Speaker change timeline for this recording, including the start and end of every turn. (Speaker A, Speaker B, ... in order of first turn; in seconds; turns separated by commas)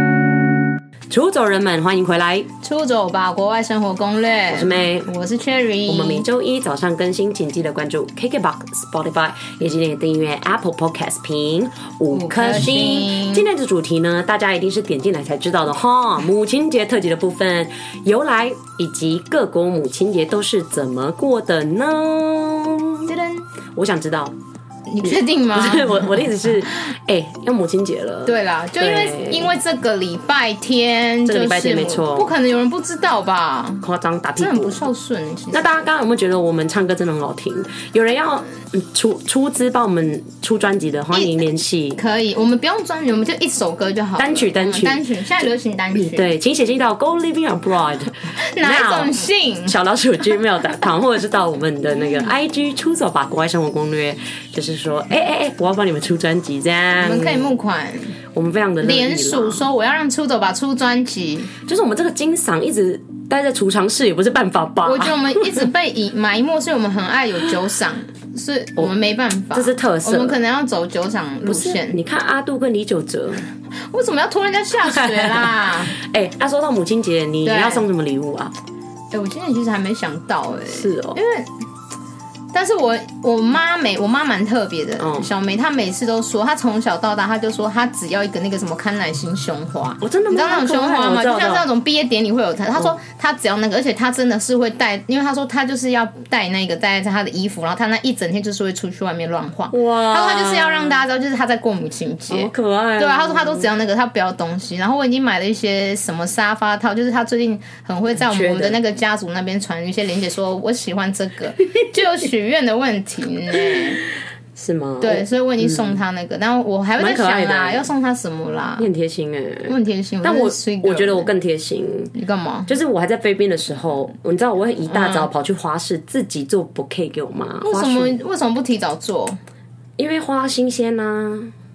Speaker A: 1.1-2.5, Speaker B: 2.6-6.2, Speaker A: 4.5-5.1, Speaker A: 5.9-23.1, Speaker B: 12.1-13.5, Speaker B: 23.1-23.4, Speaker A: 23.8-24.3, Speaker B: 24.9-26.3, Speaker A: 25.0-29.5, Speaker B: 28.3-33.8, Speaker A: 31.2-32.3, Speaker A: 33.8-34.9, Speaker B: 34.4-35.8, Speaker A: 35.5-42.0, Speaker B: 42.0-46.3, Speaker A: 44.2-45.0, Speaker A: 45.9-57.5, Speaker B: 48.4-49.8, Speaker B: 57.0-58.1, Speaker A: 58.3-59.6, Speaker B: 58.8-61.5, Speaker A: 61.6-65.7, Speaker B: 64.8-72.0, Speaker A: 69.5-70.4, Speaker A: 71.5-73.4, Speaker B: 73.9-76.0, Speaker A: 74.9-78.5, Speaker B: 77.4-77.9, Speaker B: 79.1-81.5, Speaker A: 80.7-81.2, Speaker B: 82.5-114.0, Speaker A: 85.0-85.3, Speaker A: 90.0-91.7, Speaker A: 99.7-101.0, Speaker A: 102.3-103.7, Speaker A: 108.2-108.8, Speaker A: 114.6-116.0, Speaker B: 115.0-118.9, Speaker A: 117.0-117.9, Speaker A: 118.8-122.1, Speaker B: 119.7-121.3, Speaker B: 122.1-122.7, Speaker A: 122.7-128.2, Speaker B: 124.9-125.3, Speaker B: 127.6-129.4, Speaker A: 130.0-131.5